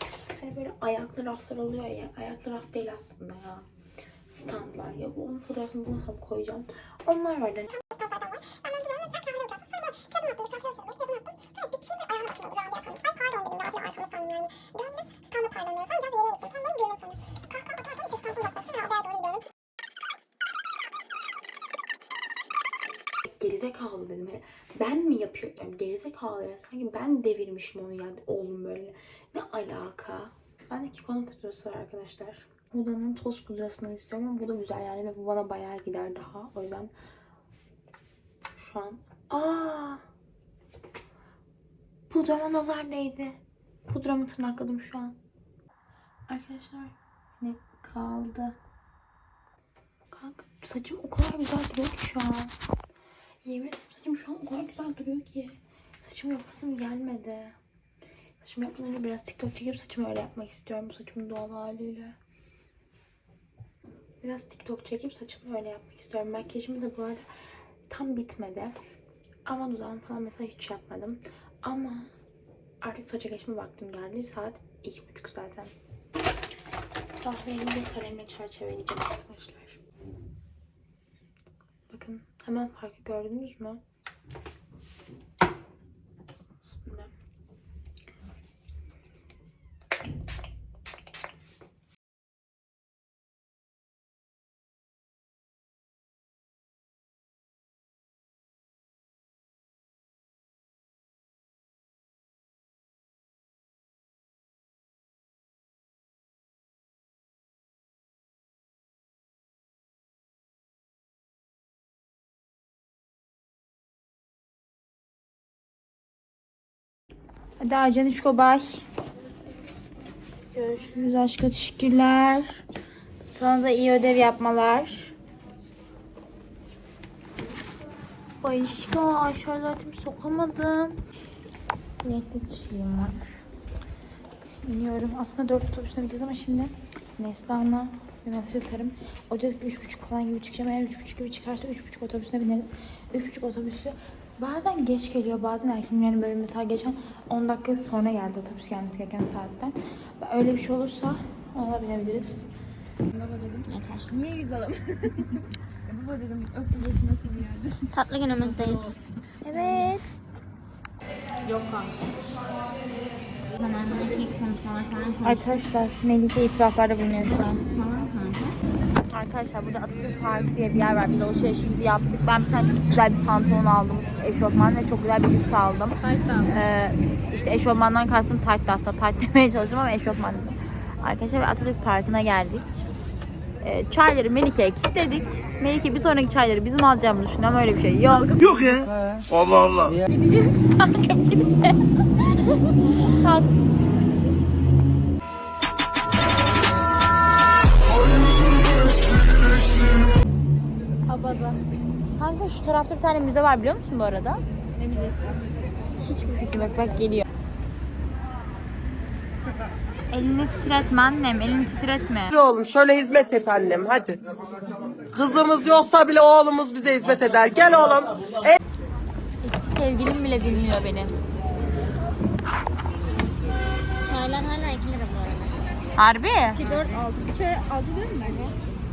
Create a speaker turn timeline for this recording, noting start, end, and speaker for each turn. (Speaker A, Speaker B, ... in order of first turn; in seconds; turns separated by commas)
Speaker A: 0.3-3.7, Speaker A: 4.3-8.0, Speaker B: 7.9-10.0, Speaker A: 23.2-36.9, Speaker A: 38.5-40.0, Speaker A: 42.1-45.2, Speaker A: 46.3-48.6, Speaker A: 50.1-52.5, Speaker A: 53.4-57.6, Speaker A: 58.4-62.2, Speaker A: 64.2-67.2, Speaker A: 67.9-68.8, Speaker A: 69.5-72.1, Speaker A: 72.8-75.7, Speaker A: 77.2-79.8, Speaker A: 81.9-83.8, Speaker A: 86.4-87.1, Speaker A: 117.6-118.8, Speaker A: 120.5-122.6, Speaker A: 123.3-125.1, Speaker A: 128.4-131.0, Speaker A: 132.0-133.2, Speaker A: 134.6-152.5, Speaker C: 153.2-153.7, Speaker D: 153.7-154.2, Speaker C: 154.4-155.3, Speaker C: 155.9-157.9, Speaker D: 157.9-159.1, Speaker A: 159.4-160.1, Speaker D: 161.4-162.0, Speaker D: 163.5-165.5, Speaker A: 165.2-167.7, Speaker D: 167.3-168.6, Speaker A: 169.1-182.7, Speaker C: 176.0-176.6, Speaker A: 183.6-188.6, Speaker C: 188.3-188.8, Speaker A: 190.7-191.8, Speaker A: 193.1-193.5, Speaker C: 201.1-201.6, Speaker A: 202.2-204.4, Speaker C: 204.8-205.4, Speaker A: 206.0-207.2, Speaker A: 210.1-212.3, Speaker E: 212.3-214.2, Speaker E: 215.1-218.1, Speaker A: 219.4-221.1, Speaker D: 224.1-225.6, Speaker A: 226.0-226.6, Speaker C: 226.5-228.6